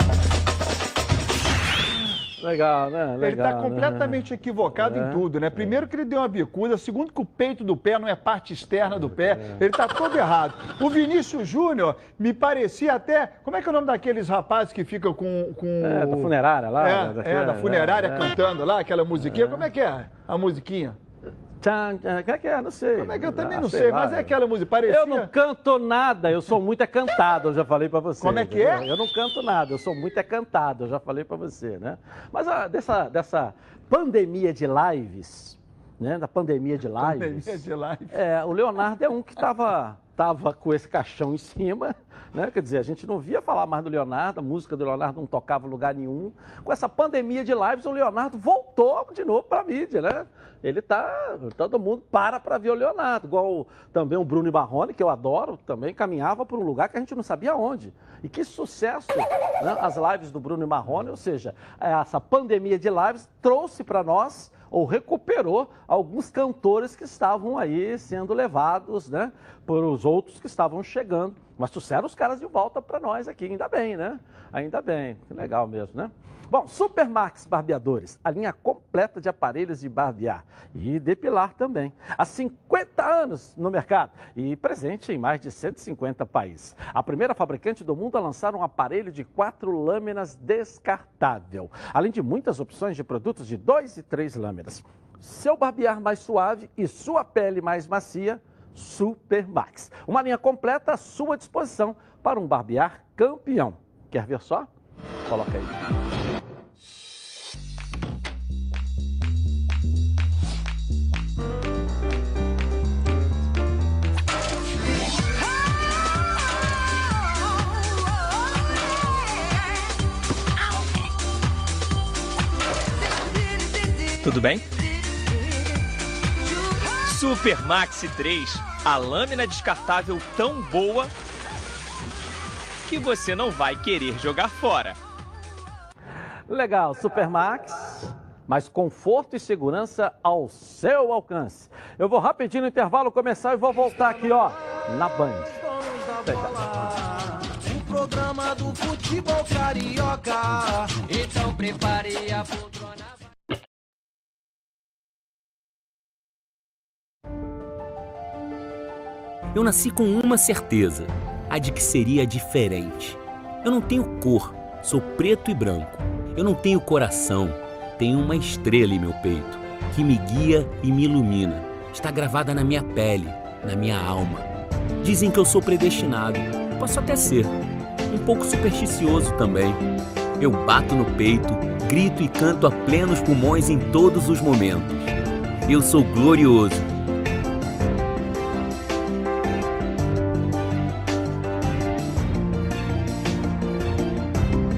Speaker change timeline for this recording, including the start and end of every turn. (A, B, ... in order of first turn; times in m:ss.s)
0:02.4-0:05.8 A
0:03.2-0:21.0 B
0:08.9-0:09.6 A
0:15.8-0:18.4 A
0:19.2-0:19.7 A
0:21.6-1:44.7 A
0:23.0-0:25.3 B
0:28.2-0:28.9 B
0:37.0-0:38.2 B
1:45.3-1:45.7 A
2:04.2-2:04.6 C
2:07.0-2:11.1 C
2:12.8-2:15.0 C
2:16.5-2:25.6 A
2:24.0-2:24.5 D
2:25.5-2:31.0 D
2:26.2-2:26.6 A
2:31.0-2:33.2 E
2:39.5-2:54.5 F
2:55.0-2:57.6 F
2:58.1-2:59.8 F
3:00.4-3:05.1 F
3:05.7-3:06.9 F